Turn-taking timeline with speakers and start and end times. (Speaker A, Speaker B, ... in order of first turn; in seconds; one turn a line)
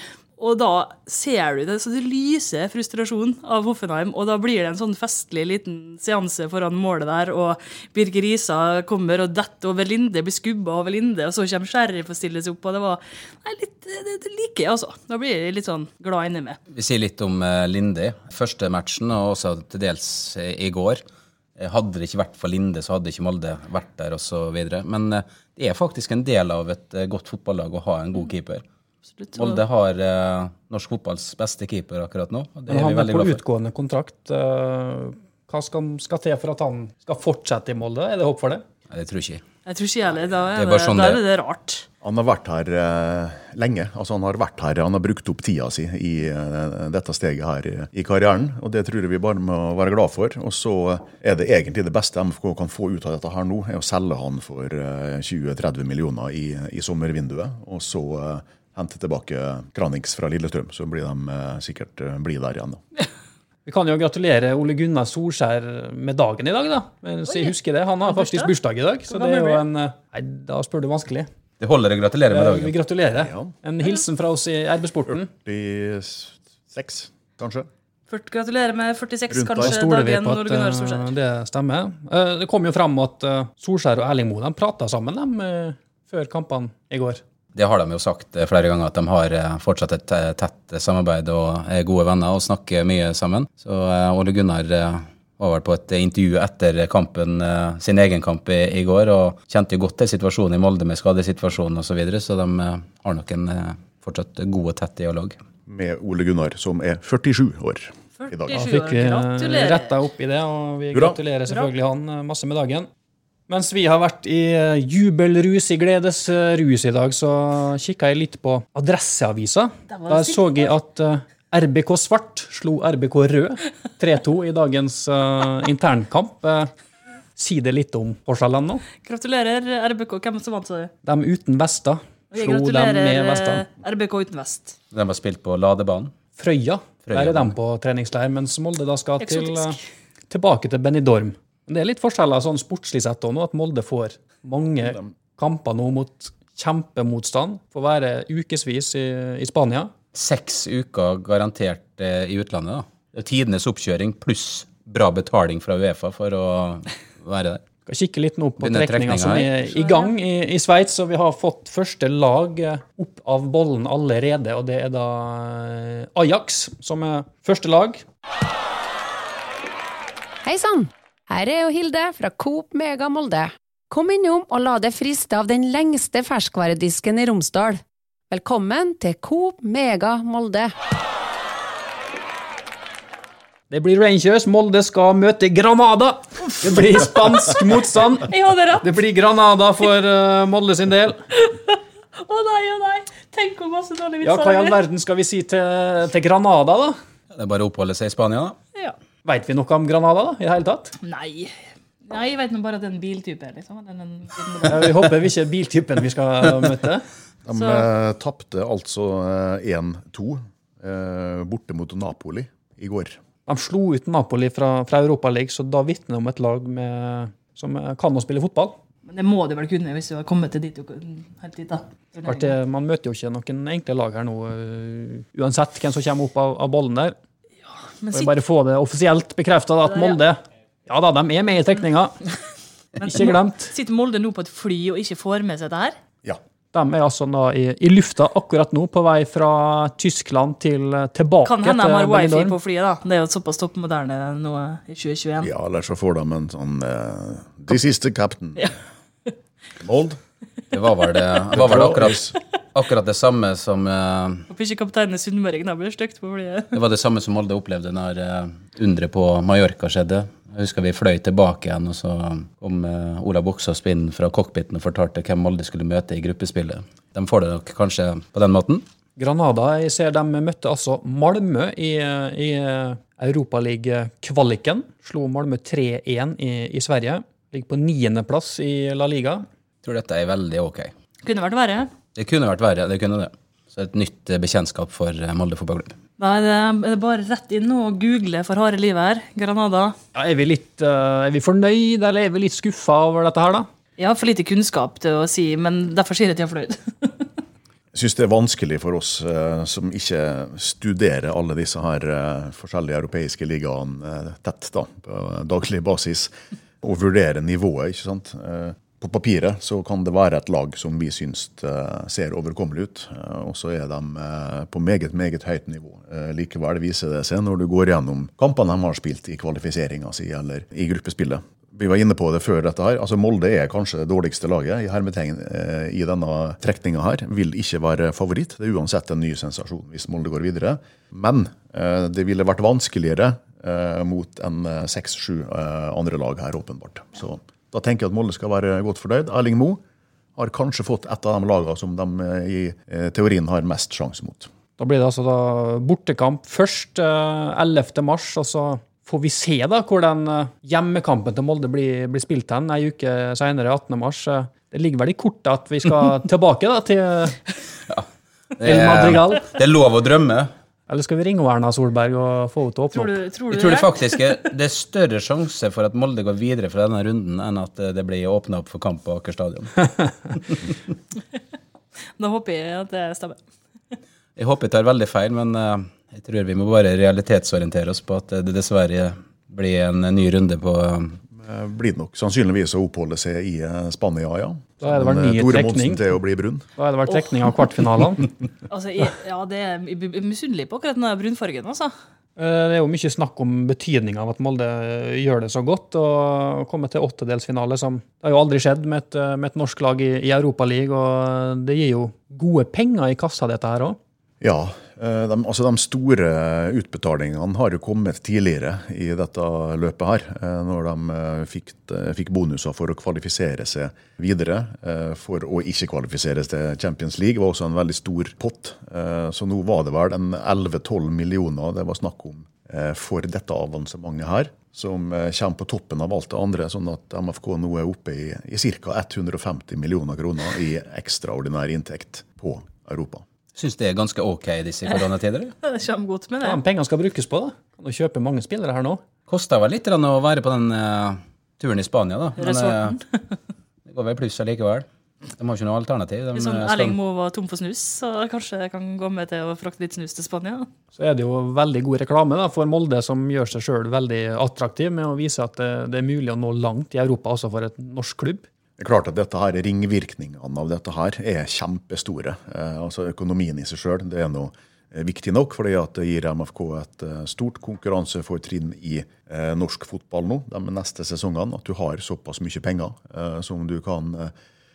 Speaker A: 0.4-16.6
Speaker B: 16.7-21.0
Speaker B: 21.6-28.6
Speaker A: 29.2-29.6
Speaker B: 29.4-33.4
Speaker C: 32.7-38.6
Speaker B: 38.9-39.4
Speaker A: 39.6-41.9
Speaker B: 40.5-41.2
Speaker D: 42.0-62.8
Speaker C: 63.7-71.3
Speaker A: 68.0-68.5
Speaker A: 69.1-69.7
Speaker B: 71.6-72.7
Speaker C: 72.3-75.3
Speaker D: 73.1-73.5
Speaker D: 75.1-77.7
Speaker A: 78.1-81.1
Speaker D: 79.3-79.8
Speaker C: 79.6-87.2
Speaker B: 87.5-105.3
Speaker D: 105.7-108.5
Speaker A: 108.2-110.0
Speaker C: 108.5-112.9
Speaker D: 110.9-111.2
Speaker C: 113.5-126.7
Speaker A: 119.9-120.6
Speaker C: 127.3-128.8
Speaker A: 129.0-130.9
Speaker C: 131.0-133.7
Speaker A: 132.3-134.8
Speaker B: 134.9-136.1
Speaker C: 136.4-139.8
Speaker B: 137.1-137.5
Speaker A: 139.2-139.8
Speaker C: 140.3-149.9
Speaker B: 150.2-157.6
Speaker C: 157.9-168.0
Speaker B: 158.6-159.6
Speaker A: 159.7-160.1
Speaker E: 170.4-180.7
Speaker C: 183.7-188.3
Speaker A: 188.3-188.9
Speaker C: 188.8-191.2
Speaker A: 191.4-194.8
Speaker C: 194.2-196.9
Speaker B: 197.3-198.6
Speaker C: 199.2-200.9
Speaker A: 201.0-201.5
Speaker A: 202.1-204.9
Speaker C: 204.7-207.0
Speaker D: 207.5-213.2
Speaker A: 207.5-207.9
Speaker C: 213.5-218.8
Speaker A: 219.1-222.6
Speaker C: 222.2-227.1
Speaker A: 228.0-228.3
Speaker C: 228.1-232.3
Speaker A: 229.9-230.2
Speaker A: 233.0-235.9
Speaker C: 233.0-233.7
Speaker C: 236.7-242.6
Speaker A: 241.4-245.5
Speaker D: 245.4-248.7
Speaker D: 249.8-250.2
Speaker B: 250.7-254.4
Speaker D: 251.5-252.3
Speaker A: 254.5-256.8
Speaker B: 256.7-268.8
Speaker C: 269.2-279.4
Speaker B: 279.8-280.9
Speaker A: 281.2-281.9
Speaker B: 282.1-285.9
Speaker A: 286.2-289.9
Speaker C: 290.1-293.7
Speaker A: 294.0-297.3
Speaker D: 297.9-306.3
Speaker D: 306.8-339.8
Speaker D: 340.4-344.5
Speaker C: 344.8-357.4
Speaker B: 358.6-360.5
Speaker C: 358.6-359.5
Speaker C: 360.9-363.2
Speaker A: 362.9-364.1
Speaker B: 363.5-370.7
Speaker A: 372.2-373.4
Speaker B: 374.4-381.2
Speaker D: 381.4-386.7
Speaker C: 384.8-386.1
Speaker C: 386.8-388.3
Speaker A: 388.7-391.9
Speaker C: 392.4-404.0
Speaker D: 404.4-433.2
Speaker B: 433.6-435.6
Speaker A: 435.6-436.6
Speaker C: 436.4-439.0
Speaker B: 439.3-442.9
Speaker A: 442.4-443.0
Speaker B: 443.9-447.0
Speaker A: 446.3-450.7
Speaker C: 450.9-458.5
Speaker D: 458.8-474.3